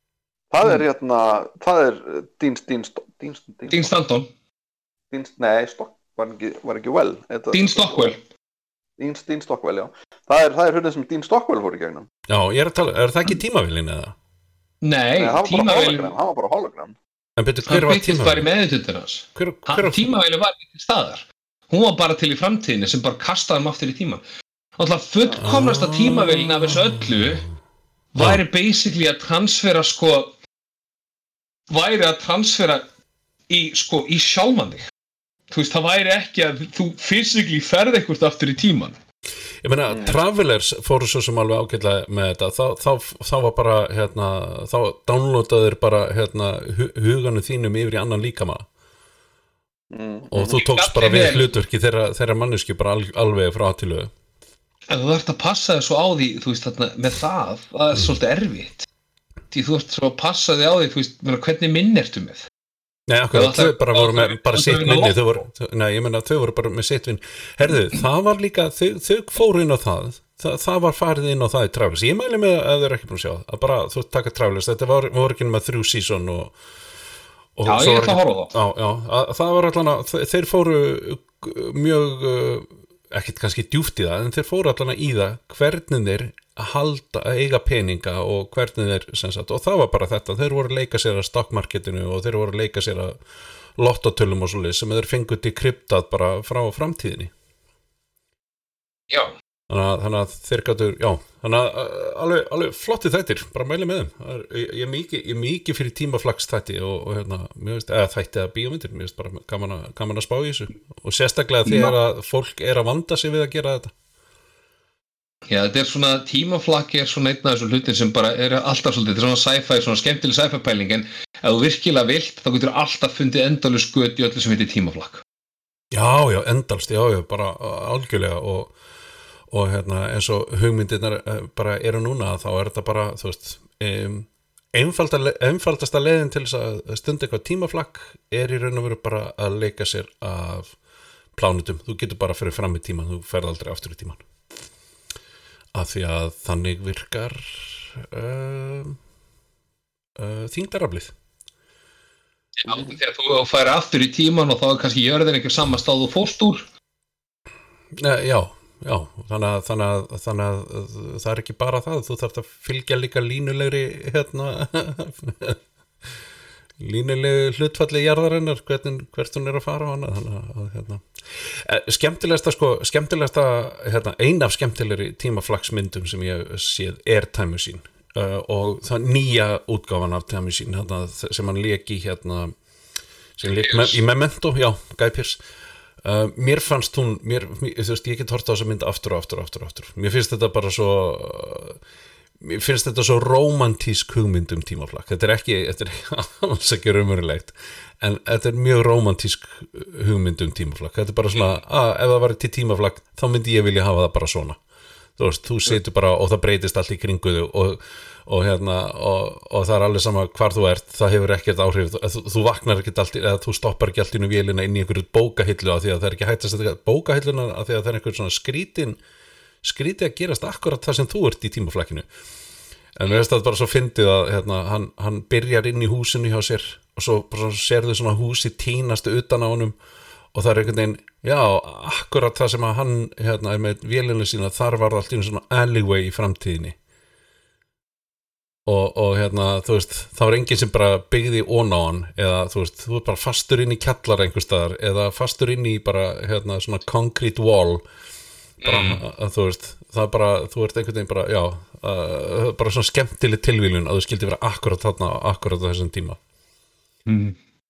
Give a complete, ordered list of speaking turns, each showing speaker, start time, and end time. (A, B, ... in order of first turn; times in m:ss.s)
0:00.5-0:03.9 A
0:03.7-0:04.3 B
0:05.1-0:08.1 A
0:07.5-0:08.2 B
0:09.0-0:12.1 A
0:12.3-0:14.2 C
0:14.8-0:16.1 B
0:15.2-0:17.0 A
0:17.4-0:18.5 C
0:17.7-0:24.2 B
0:19.4-0:20.1 C
0:24.8-0:27.4 B
0:25.4-0:27.4 C
0:28.1-0:30.3 B
0:28.2-0:28.4 C
0:31.7-0:32.8 B
0:33.5-0:34.9 B
0:35.5-0:39.0 B
0:39.6-0:48.7 C
0:39.9-0:40.2 A
0:49.9-0:50.6 A
0:50.3-0:54.1 C
0:50.5-0:51.5 B
0:54.9-0:58.9 B
0:59.5-1:02.5 B
1:03.1-1:16.6 C
1:03.3-1:05.4 B
1:17.6-1:33.2 C
1:17.7-1:18.6 B
1:33.8-1:37.3 C
1:39.7-1:53.9 C
1:51.6-1:52.0 B
1:55.5-2:05.2 B
2:05.9-2:08.7 C
2:09.5-2:20.8 C
2:21.4-2:24.2 C
2:25.7-2:29.0 C
2:30.2-2:31.1 C
2:32.6-2:36.7 B
2:38.0-2:45.6 C
2:46.8-3:02.5 C
3:03.4-3:05.4 C
3:03.6-3:04.0 B
3:06.0-3:11.8 C
3:12.4-3:24.6 C
3:25.2-3:39.0 C
3:39.6-3:42.1 C
3:43.0-3:49.8 C
3:50.3-3:56.8 C
3:58.7-4:07.8 C
4:08.6-4:09.0 B
4:08.6-4:16.2 C
4:17.1-4:17.4 B